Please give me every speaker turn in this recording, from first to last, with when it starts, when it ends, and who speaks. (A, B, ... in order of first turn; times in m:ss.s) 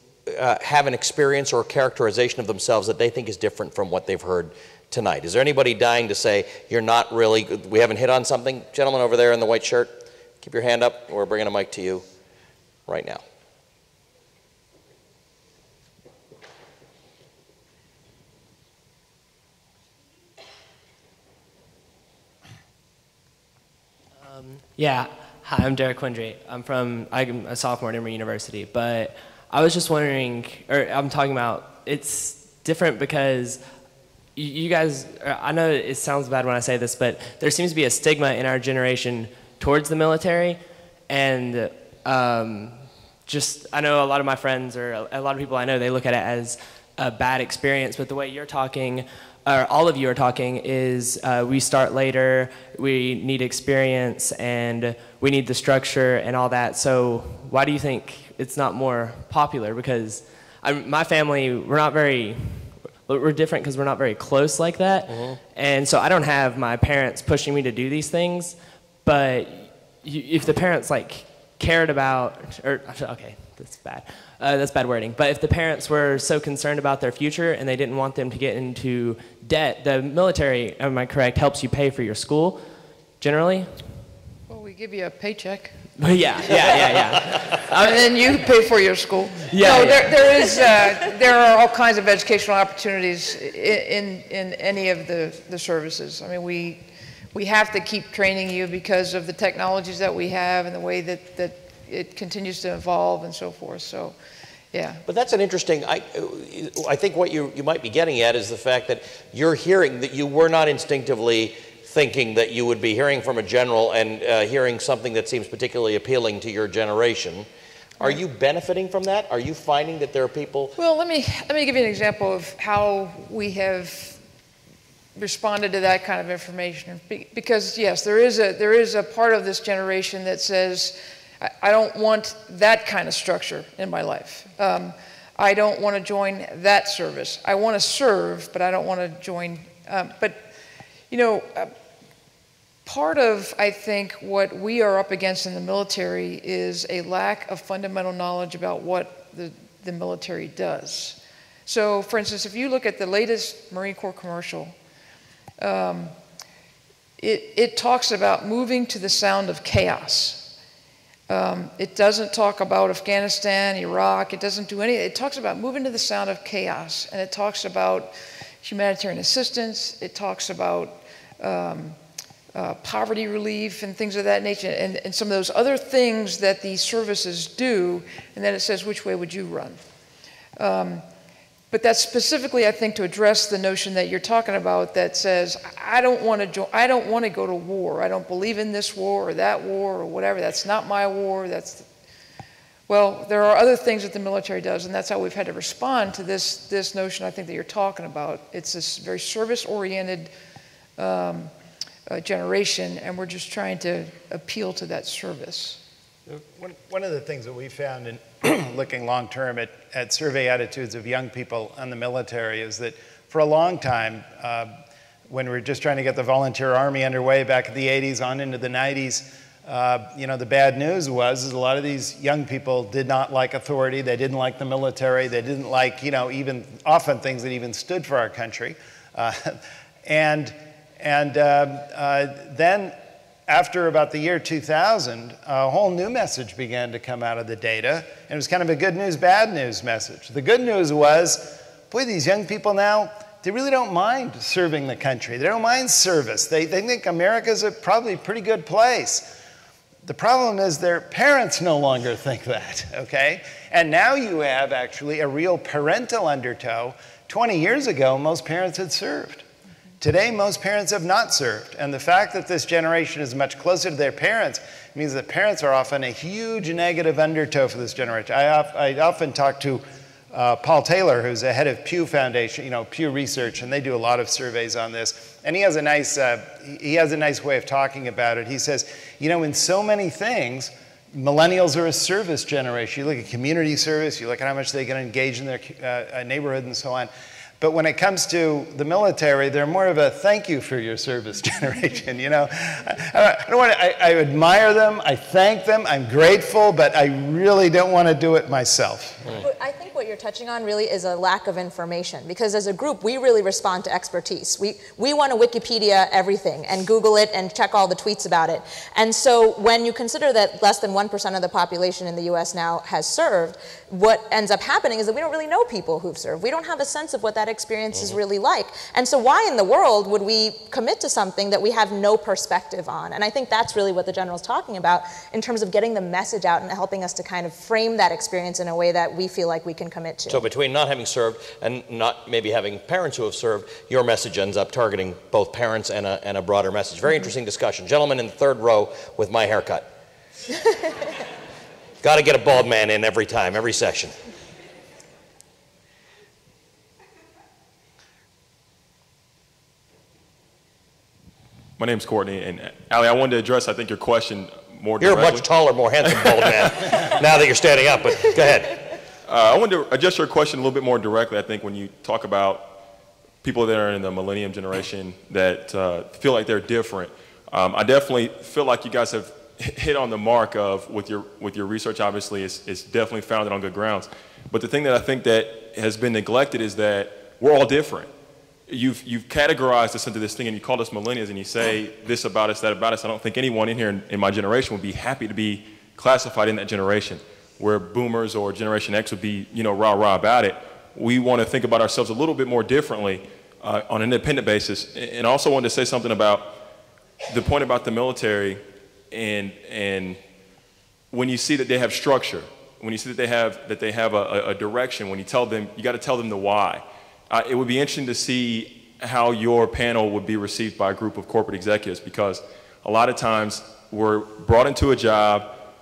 0:00.3-0:12.0 A
0:12.9-0:13.2 A
0:24.2-0:33.6 B
0:34.3-1:23.8 B
1:05.1-1:05.4 A
1:24.5-1:25.8 C
1:26.0-1:28.2 B
1:26.4-1:44.2 C
1:29.5-1:30.5 B
1:44.7-1:45.0 C
1:45.1-1:57.5 A
1:58.0-2:00.7 A
2:00.8-2:04.2 C
2:05.1-2:20.5 C
2:21.1-2:21.7 C
2:22.8-2:34.7 C
2:35.6-2:36.1 C
2:37.2-2:40.5 C
2:41.3-2:52.0 C
2:52.5-2:59.8 C
3:00.6-3:01.0 C
3:01.7-3:11.9 C
3:12.9-3:20.3 C
3:21.0-3:21.5 C
3:22.1-3:25.8 C
3:26.3-3:34.7 D
3:35.3-4:09.3 D
4:10.0-4:19.4 D
4:20.0-4:59.4 D
4:59.4-5:30.4 E
5:30.3-5:39.8 A
5:42.0-5:44.1 A
5:51.8-5:55.5 F
5:55.0-5:58.8 A
5:56.0-5:57.2 F
5:59.3-6:02.8 F
6:03.4-6:18.1 F
6:18.7-6:36.6 F
6:37.3-6:40.2 F
6:41.1-6:55.5 F